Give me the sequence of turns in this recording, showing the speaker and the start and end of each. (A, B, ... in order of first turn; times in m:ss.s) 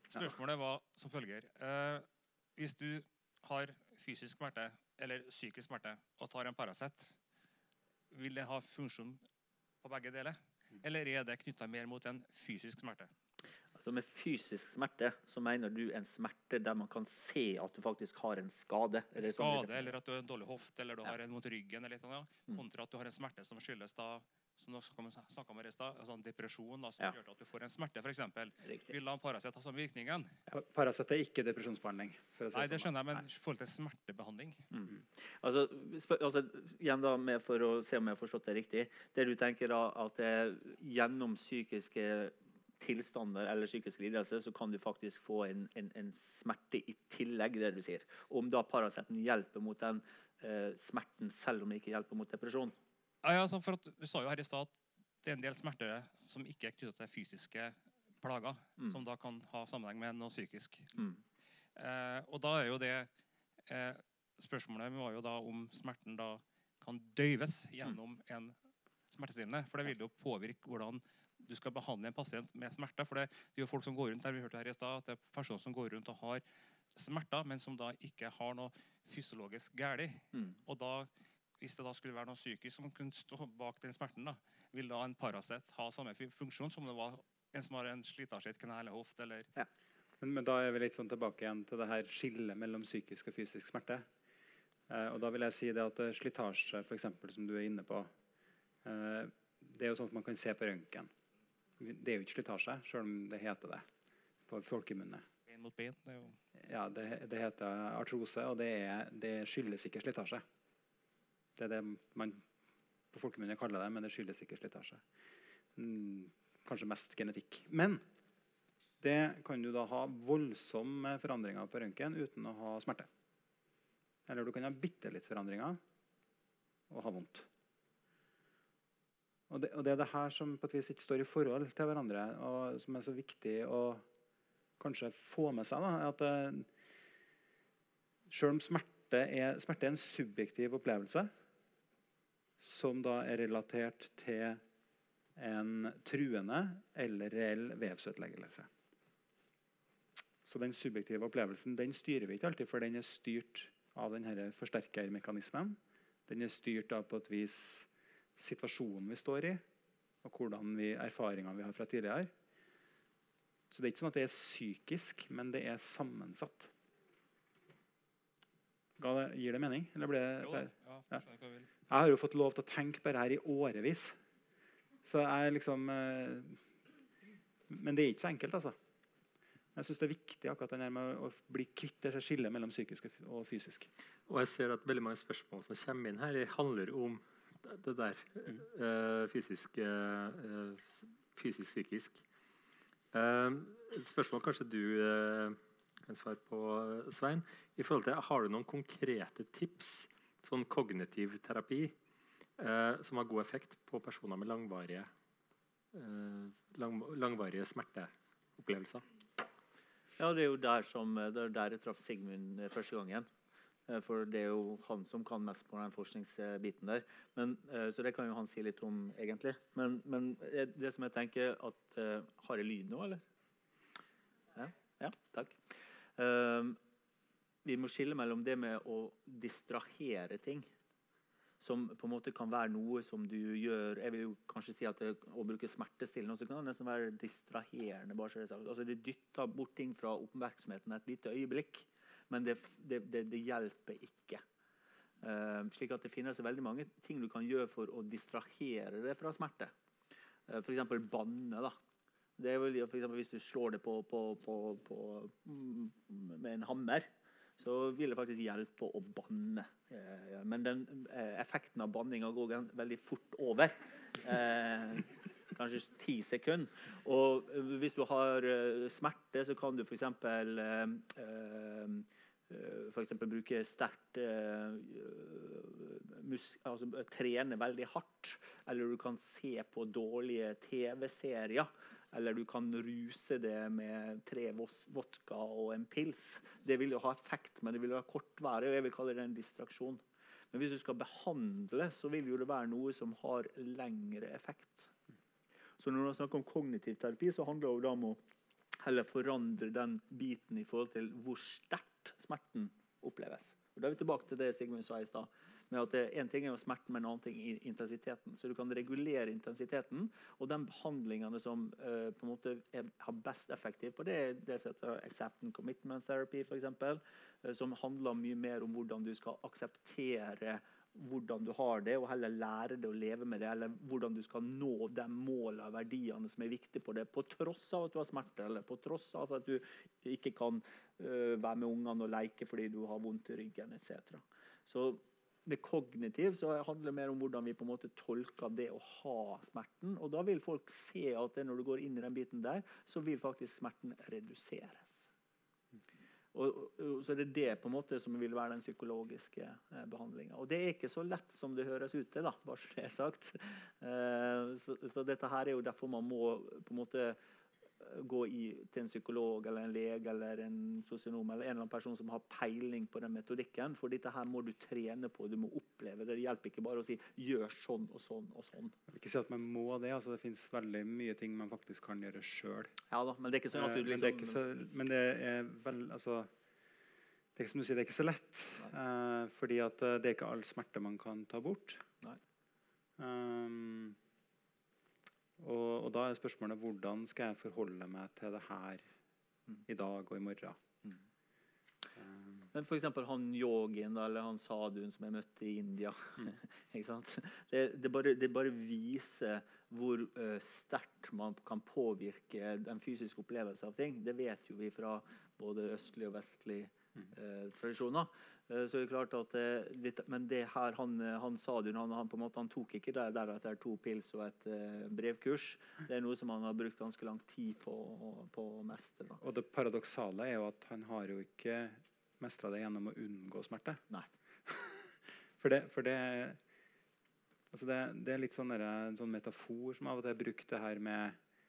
0:00.1-0:07.2 A
0:08.1-0:09.2 A
0:09.8-0:13.1 A
0:13.8-0:19.9 B
0:19.2-0:30.4 A
0:28.7-0:28.9 B
0:30.5-0:33.2 C
0:32.5-0:34.6 A
0:34.7-0:52.8 B
0:53.2-1:01.0 A
1:01.8-1:03.1 A
1:03.7-1:08.5 A
1:09.1-1:16.4 A
1:16.9-1:29.5 A
1:30.2-1:34.0 C
1:34.9-1:38.1 C
1:38.8-1:41.1 C
1:41.8-1:43.8 C
1:44.5-1:45.2 C
1:45.5-1:46.3 A
1:46.6-1:50.4 C
1:51.6-1:52.4 C
1:53.1-1:55.0 C
1:55.8-1:58.0 C
1:59.0-2:03.1 C
2:04.3-2:05.8 C
2:06.9-2:07.5 C
2:09.5-2:14.0 C
2:14.8-2:16.7 C
2:18.3-2:21.3 C
2:22.6-2:24.6 C
2:25.4-2:28.7 C
2:30.4-2:39.6 C
2:40.2-2:42.3 C
2:43.7-2:46.7 C
2:49.0-2:51.2 C
2:50.4-2:51.7 A
2:51.9-2:54.2 C
2:55.0-2:56.6 C
2:57.7-2:58.8 C
2:59.8-3:03.9 C
3:04.3-3:12.2 D
3:13.1-3:21.9 D
3:22.6-3:25.1 D
3:25.9-3:29.0 D
3:30.2-3:33.3 B
3:33.9-3:43.2 B
3:44.5-3:45.6 B
3:46.2-3:46.8 B
3:47.6-3:50.7 B
3:51.6-4:04.4 B
4:05.2-4:09.7 B
4:10.5-4:11.7 B
4:12.4-4:54.9 B
4:55.8-4:58.2 B
4:58.8-5:45.1 B
5:46.3-5:57.2 B
5:57.8-6:08.8 B
6:08.9-6:12.7 C
6:12.9-6:14.4 B
6:13.5-6:16.3 C
6:17.4-6:21.8 C
6:23.0-6:24.0 C
6:25.4-6:28.8 C
6:29.6-6:30.6 C
6:32.0-6:32.5 C
6:32.5-6:59.2 B
6:59.2-7:03.8 C
7:04.5-7:06.4 C
7:07.5-7:11.2 C